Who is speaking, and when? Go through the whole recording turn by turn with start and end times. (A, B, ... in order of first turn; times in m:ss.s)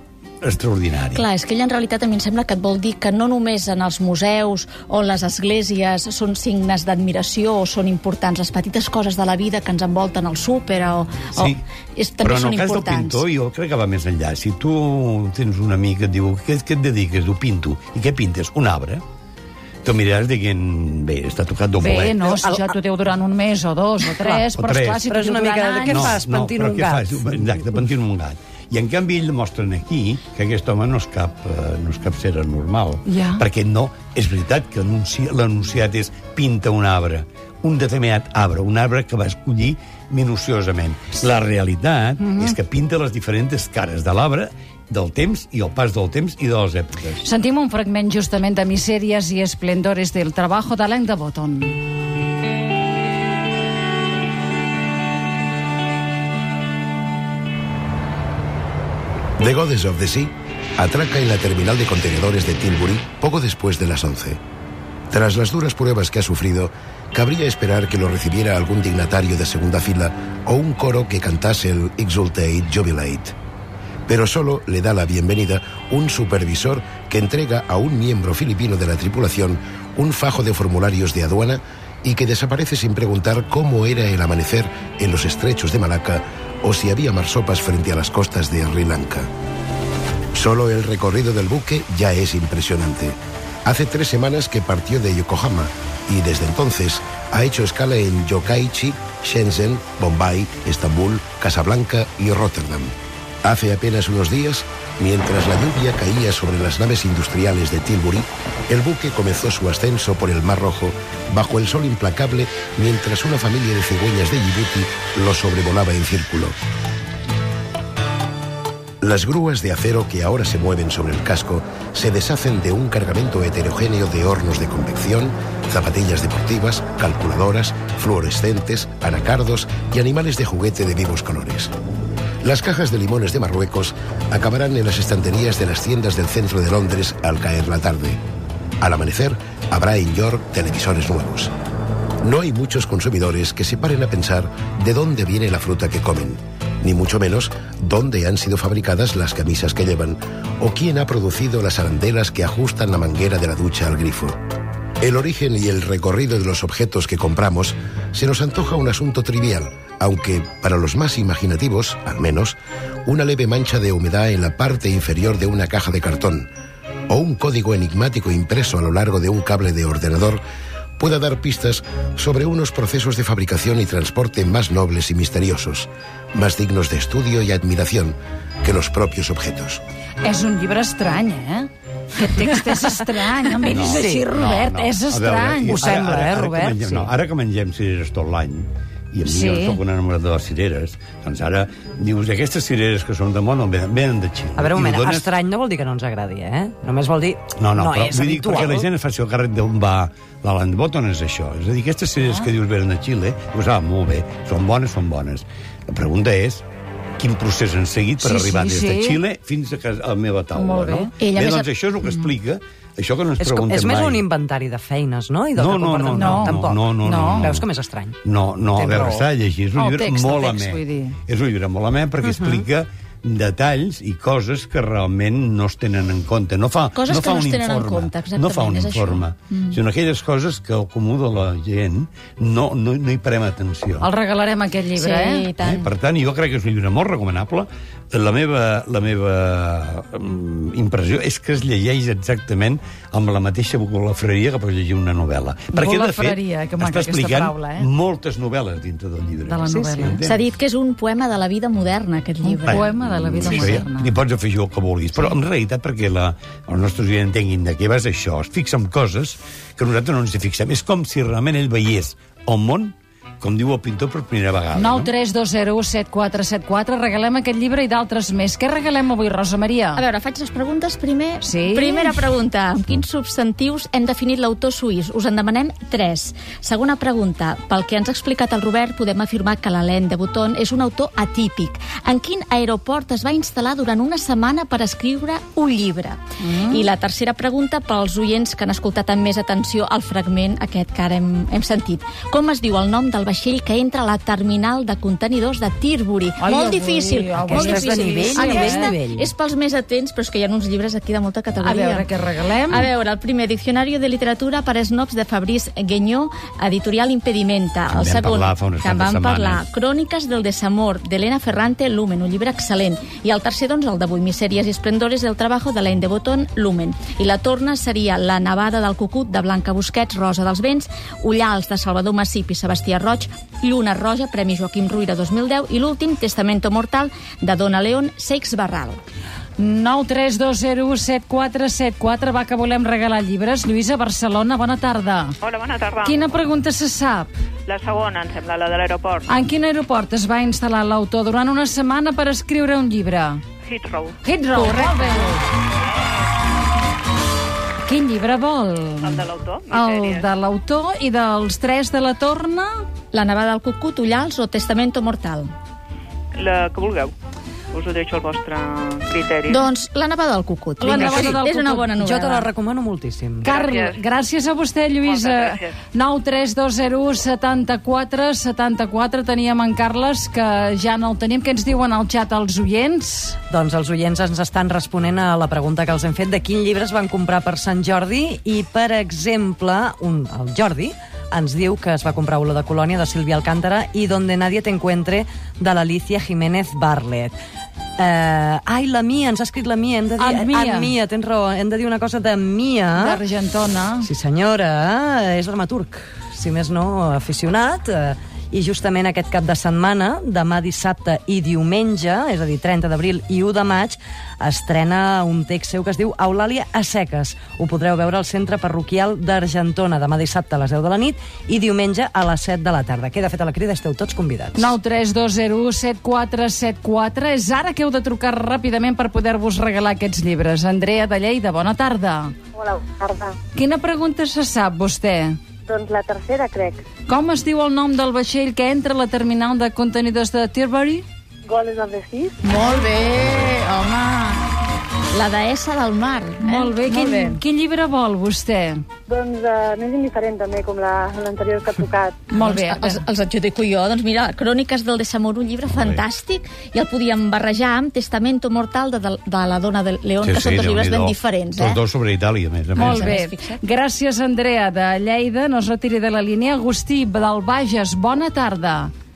0:00.4-0:01.2 A
0:01.1-0:13.2 B
0:11.3-0:11.6 A
0:12.2-0:19.0 A
0:19.8-0:22.2 A
0:21.8-0:26.2 C
0:22.3-0:22.7 D
0:24.2-0:24.4 D
0:24.6-0:25.0 A
0:25.1-0:27.8 D
0:25.8-0:47.2 A
0:33.0-0:33.4 C
0:42.2-0:42.6 C
0:47.2-0:51.8 C
0:59.4-1:04.4 E
1:05.1-1:13.3 E
1:14.1-1:29.3 E
1:30.3-1:42.9 E
1:43.4-1:56.5 E
1:59.0-2:11.7 E
2:12.4-2:18.2 E
2:18.8-2:21.5 E
2:22.2-2:34.4 E
2:35.0-2:46.5 E
2:47.1-2:50.4 E
2:51.0-2:59.8 E
3:00.2-3:05.9 C
3:03.6-3:04.2 D
3:03.7-3:15.3 A
3:05.6-3:07.1 D
3:09.2-3:09.8 C
3:14.6-3:18.8 D
3:17.6-3:26.6 A
3:22.2-3:22.5 C
3:27.2-3:34.2 A
3:28.2-3:29.2 C
3:30.6-3:31.1 C
3:31.2-3:31.7 B
3:33.4-3:38.2 D
3:35.6-3:37.7 A
3:36.1-3:37.6 C
3:38.2-3:54.1 A
3:38.7-3:39.3 D
3:39.8-3:41.2 C
3:42.2-3:42.6 D
3:46.9-3:49.8 B
3:54.0-3:55.4 C
3:54.9-3:55.9 B
3:55.6-4:10.4 A
4:05.7-4:07.9 C
4:09.4-4:10.2 C
4:09.7-4:10.1 D
4:10.2-4:12.9 B
4:12.4-4:14.2 C
4:12.7-4:25.1 A
4:13.4-4:13.8 B
4:24.7-4:30.0 C
4:30.0-5:02.1 B
4:31.4-4:32.2 C
4:46.4-4:46.8 C
4:56.4-4:58.9 C
4:57.5-4:59.3 D
5:01.6-5:02.9 C
5:02.7-5:29.0 B
5:07.9-5:09.7 A
5:29.6-5:35.4 C
5:35.4-5:36.5 F
5:36.0-5:37.3 C
5:37.7-5:39.3 F
5:39.3-5:43.4 C
5:43.6-5:44.2 F
5:44.2-5:45.4 C
5:44.6-5:45.4 B
5:47.8-5:52.8 C
5:49.0-5:50.3 F
5:53.1-5:55.5 B
5:56.3-5:57.1 F
5:57.7-5:59.7 F
5:59.5-6:02.5 B
6:00.8-6:01.9 C
6:00.8-6:01.4 D
6:02.0-6:03.5 D
6:03.4-6:04.0 F
6:03.4-6:13.4 C
6:05.0-6:05.8 F
6:13.5-6:27.3 D
6:28.0-6:33.2 D
6:30.2-6:30.9 C
6:32.9-6:34.1 C
6:34.0-6:54.7 D
6:54.6-7:02.3 C
7:02.5-7:03.4 G
7:03.5-7:05.4 C
7:05.6-7:06.8 G
7:07.1-7:11.0 C
7:11.4-7:12.4 G
7:12.4-7:14.4 B
7:15.1-7:17.4 B
7:16.4-7:18.8 C
7:19.1-7:22.2 G
7:22.3-7:31.8 B
7:22.3-7:23.0 C
7:25.7-7:26.1 A
7:30.2-7:33.0 A
7:32.7-7:33.6 B
7:32.8-7:38.9 C